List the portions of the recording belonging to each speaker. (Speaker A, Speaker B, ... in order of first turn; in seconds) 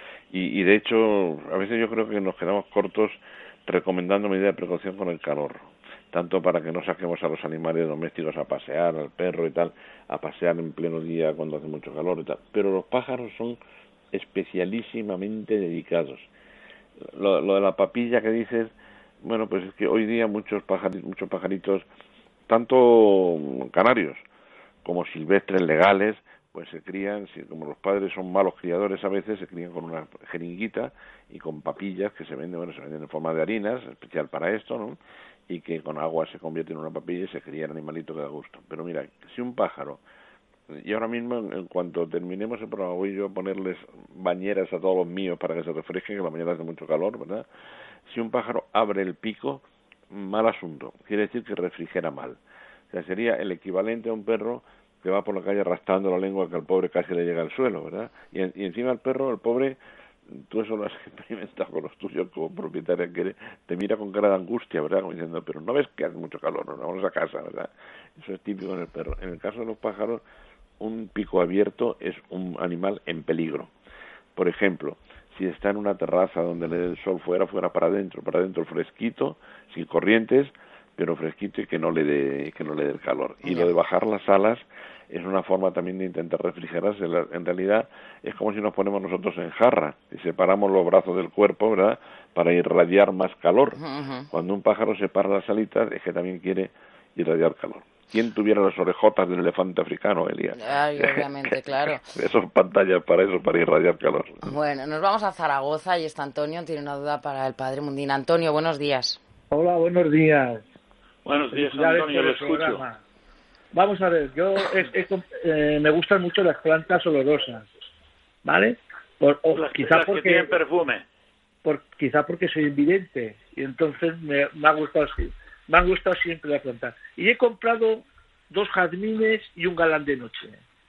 Speaker A: 0.3-13.6, 14.1-16.3, 17.0-18.7, 19.2-21.9, 22.5-24.2, 24.9-35.0, 35.5-40.0, 40.7-47.5, 48.1-52.4, 52.9-59.8, 60.3-70.2, 70.8-73.7, 74.4-93.8, 94.3-104.5
Speaker B: 83.5-83.7, 93.8-94.3, 100.6-102.1, 104.4-109.2
Speaker C: 109.5-110.6, 111.5-113.0, 113.7-117.7, 118.4-120.5, 121.6-130.6
Speaker D: 111.2-112.8, 119.5-121.0